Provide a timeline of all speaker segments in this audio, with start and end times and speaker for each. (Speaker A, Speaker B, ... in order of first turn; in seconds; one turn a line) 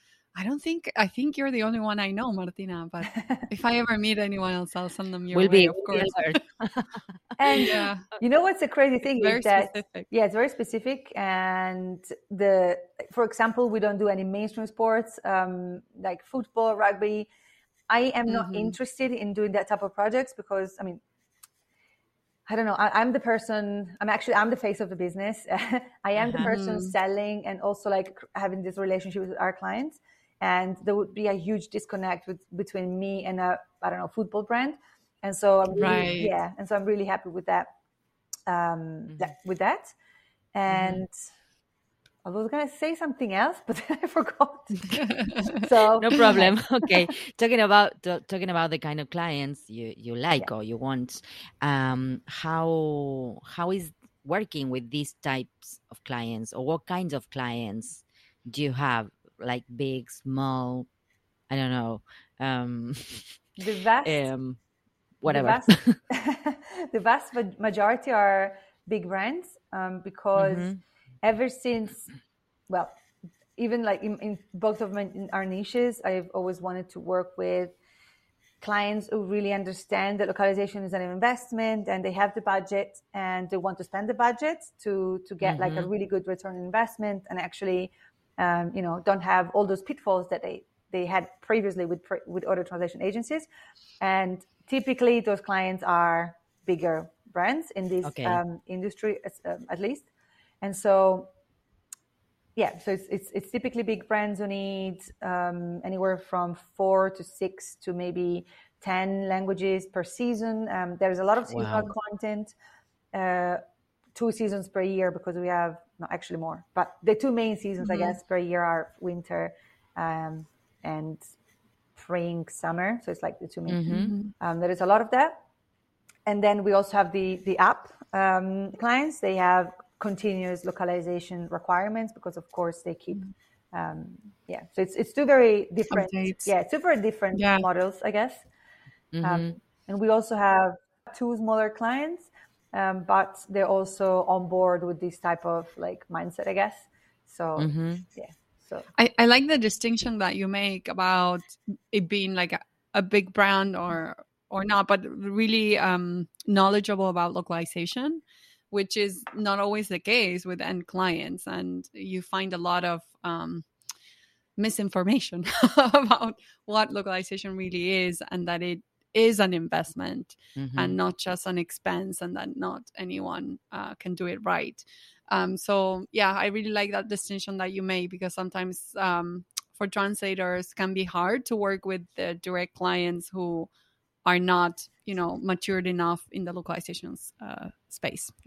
Speaker A: 0.3-6.4
Speaker B: 5.3-7.0
Speaker C: 7.4-17.3
Speaker A: 7.6-8.1
Speaker A: 9.1-10.1
Speaker C: 17.9-21.0
Speaker A: 18.3-18.7
Speaker C: 22.5-37.7
Speaker B: 26.1-26.5
Speaker A: 26.4-26.9
Speaker B: 35.7-36.1
Speaker A: 35.8-36.3
Speaker C: 38.5-39.9
Speaker C: 40.5-41.1
Speaker B: 40.7-41.0
Speaker C: 42.2-45.0
Speaker A: 45.0-45.5
Speaker C: 45.5-47.1
Speaker B: 46.0-60.9
Speaker B: 61.5-63.3
Speaker C: 63.6-64.3
Speaker B: 64.0-64.6
Speaker B: 65.2-66.0
Speaker C: 65.2-72.1
Speaker B: 70.3-70.8
Speaker C: 72.7-73.0
Speaker C: 73.5-77.7
Speaker C: 78.6-93.5
Speaker B: 85.4-85.9
Speaker C: 94.0-100.1
Speaker B: 98.0-98.4
Speaker C: 100.6-101.3
Speaker C: 102.5-112.5
Speaker B: 111.5-111.9
Speaker C: 113.1-113.6
Speaker C: 114.2-121.2
Speaker A: 117.8-118.2
Speaker C: 122.0-125.4
Speaker B: 123.7-124.1
Speaker A: 123.9-124.3
Speaker C: 126.2-138.4
Speaker A: 135.9-136.5
Speaker A: 137.3-137.6
Speaker B: 139.1-139.6
Speaker C: 139.2-148.9
Speaker B: 147.6-148.0
Speaker A: 149.0-163.7
Speaker A: 164.6-183.7
Speaker B: 170.6-171.0
Speaker A: 184.2-188.3